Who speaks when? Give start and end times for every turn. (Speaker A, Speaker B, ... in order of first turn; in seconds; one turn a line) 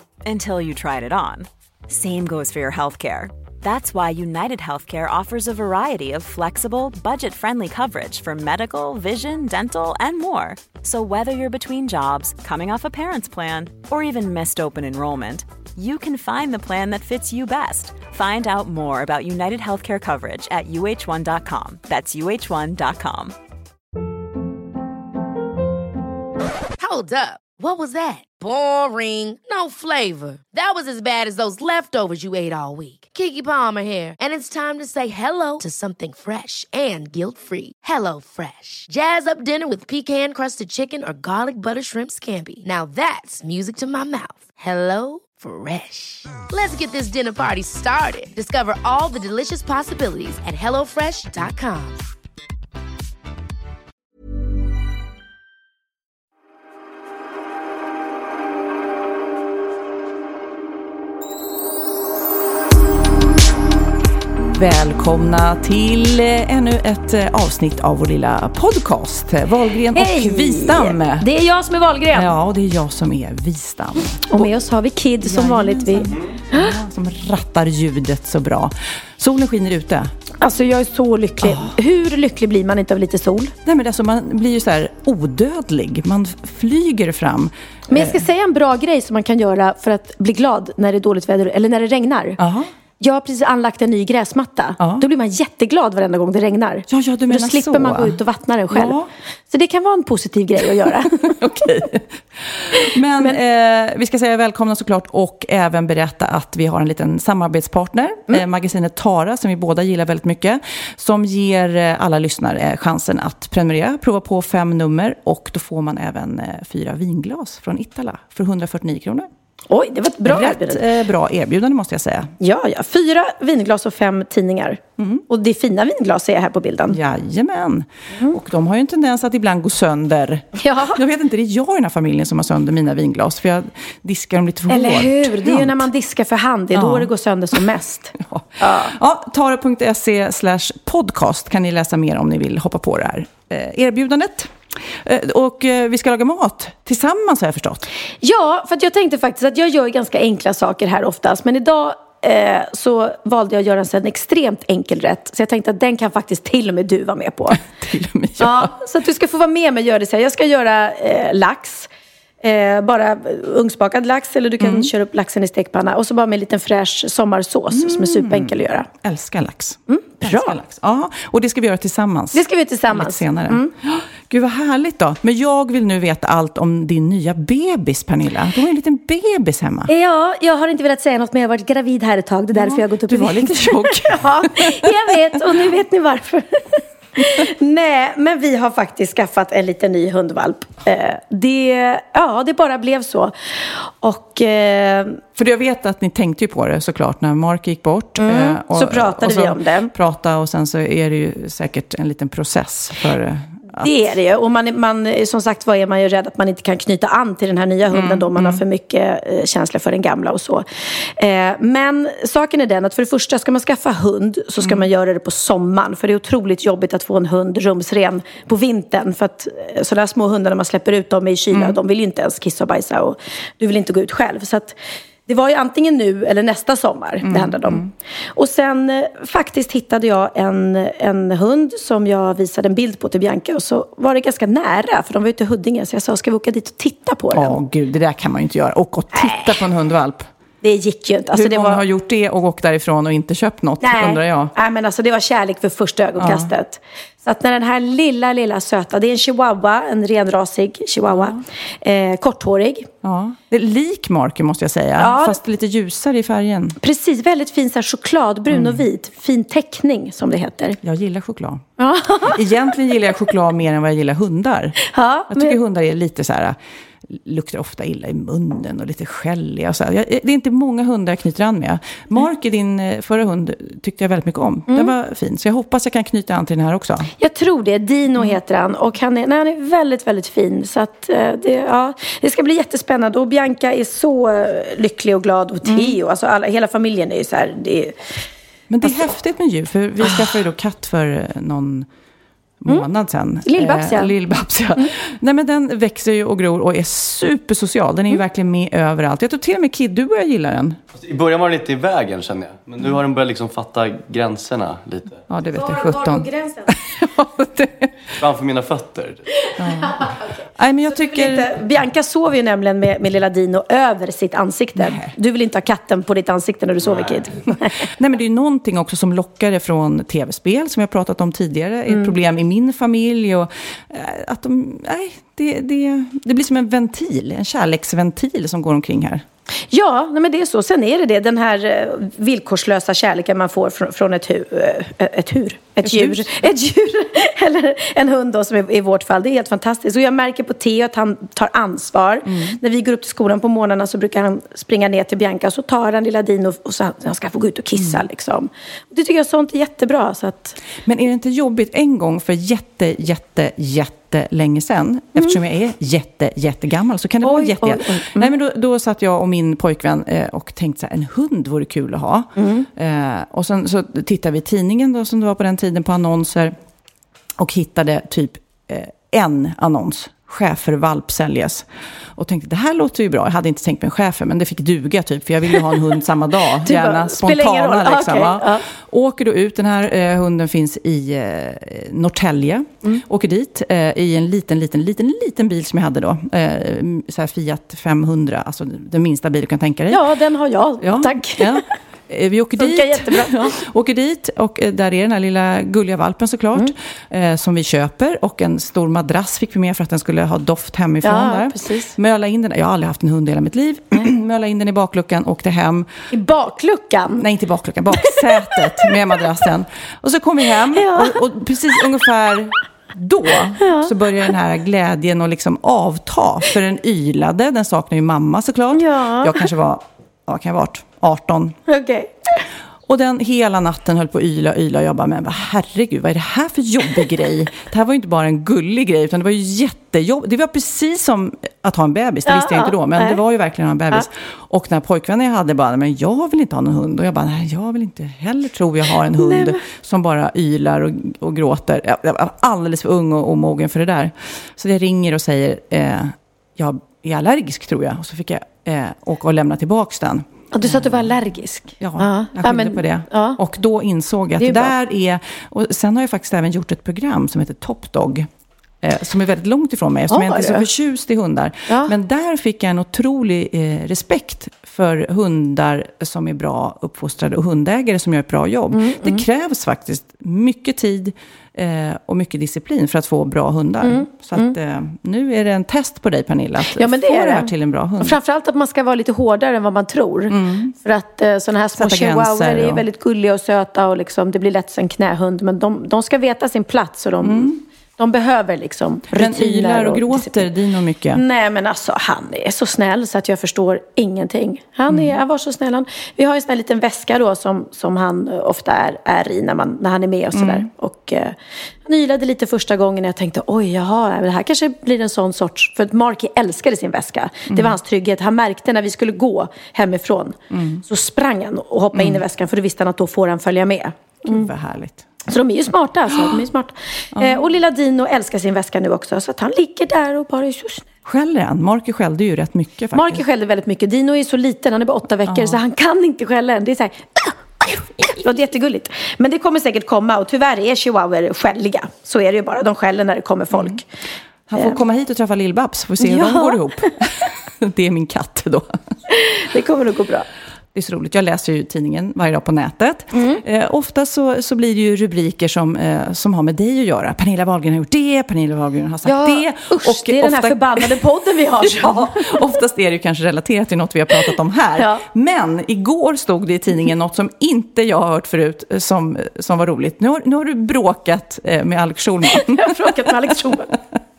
Speaker A: 0.2-23.3
Speaker B: 26.8-52.0
Speaker C: 64.5-71.3
Speaker D: 69.9-72.3
Speaker C: 72.1-74.5
Speaker D: 74.3-76.7
Speaker C: 75.2-80.1
Speaker D: 80.4-83.5
Speaker C: 81.4-81.7
Speaker C: 83.6-88.2
Speaker D: 87.9-92.4
Speaker C: 92.4-92.7
Speaker D: 93.0-99.0
Speaker C: 94.8-95.0
Speaker C: 96.9-98.2
Speaker C: 98.7-99.1
Speaker D: 99.5-101.4
Speaker C: 101.0-119.3
Speaker D: 119.7-120.8
Speaker C: 120.2-122.3
Speaker D: 122.4-127.0
Speaker C: 125.0-125.2
Speaker C: 126.9-135.8
Speaker D: 130.6-131.0
Speaker D: 134.7-138.9
Speaker C: 136.7-137.1
Speaker C: 138.2-147.9
Speaker D: 148.2-157.6
Speaker C: 157.5-158.7
Speaker D: 158.4-161.9
Speaker D: 162.4-168.9
Speaker C: 164.6-164.9
Speaker C: 167.7-179.9
Speaker D: 169.9-170.6
Speaker D: 172.3-173.7
Speaker D: 179.9-195.2
Speaker C: 182.5-185.6
Speaker C: 195.3-203.9
Speaker D: 198.2-199.9
Speaker D: 203.8-224.8
Speaker C: 207.9-208.6
Speaker C: 221.5-221.8
Speaker D: 225.3-237.6
Speaker C: 227.2-227.9
Speaker C: 237.3-240.3
Speaker D: 239.1-239.5
Speaker D: 240.6-241.8
Speaker C: 241.3-244.5
Speaker D: 243.8-252.9
Speaker C: 246.2-246.5
Speaker C: 251.1-251.4
Speaker C: 253.0-256.8
Speaker D: 255.0-255.4
Speaker D: 256.8-260.8
Speaker C: 258.5-258.8
Speaker C: 260.8-261.6
Speaker D: 261.8-262.7
Speaker C: 262.2-264.8
Speaker D: 264.9-265.6
Speaker C: 265.3-277.1
Speaker D: 277.2-288.1
Speaker C: 285.6-285.9
Speaker C: 288.7-291.9
Speaker D: 290.0-290.3
Speaker C: 292.6-300.8
Speaker D: 293.4-294.1
Speaker E: 300.9-305.2
Speaker C: 305.3-308.1
Speaker D: 305.5-306.7
Speaker E: 308.1-309.2
Speaker C: 309.6-311.5
Speaker D: 309.8-317.8
Speaker C: 314.8-315.1
Speaker C: 317.9-329.2
Speaker D: 329.7-350.6
Speaker C: 335.8-336.3
Speaker C: 342.3-342.6
Speaker C: 350.8-366.5
Speaker D: 357.2-358.3
Speaker D: 362.4-362.7
Speaker C: 367.4-390.0
Speaker D: 376.6-378.6
Speaker D: 389.9-391.6
Speaker C: 390.8-405.9
Speaker D: 392.6-393.6
Speaker D: 401.0-401.9
Speaker D: 406.1-407.2
Speaker C: 407.2-421.6
Speaker D: 408.0-408.9
Speaker D: 410.7-411.2
Speaker D: 413.6-413.9
Speaker D: 418.7-419.5
Speaker D: 421.7-422.4
Speaker C: 422.9-451.1
Speaker D: 432.3-433.2
Speaker D: 439.2-439.6
Speaker D: 450.5-453.4
Speaker C: 451.8-458.3
Speaker D: 454.4-454.7
Speaker C: 458.8-478.2
Speaker D: 460.1-460.7
Speaker D: 461.7-461.9
Speaker D: 468.7-469.2
Speaker D: 473.8-474.5
Speaker D: 476.7-490.5
Speaker C: 480.3-480.7
Speaker C: 481.8-482.8
Speaker C: 487.2-487.6
Speaker C: 489.1-491.2
Speaker D: 491.1-514.5
Speaker C: 494.9-495.2
Speaker C: 500.3-500.7
Speaker C: 510.5-510.8
Speaker C: 511.9-512.2
Speaker C: 514.2-515.0
Speaker D: 515.3-520.8
Speaker C: 517.1-517.4
Speaker C: 521.0-523.2
Speaker D: 522.9-533.9
Speaker C: 525.3-525.6
Speaker C: 533.5-533.8
Speaker C: 534.5-538.8
Speaker D: 536.0-536.9
Speaker D: 539.1-540.3
Speaker C: 540.7-550.9
Speaker D: 543.1-543.4
Speaker D: 549.0-552.5
Speaker C: 551.6-563.3
Speaker D: 554.8-555.0
Speaker D: 562.3-563.7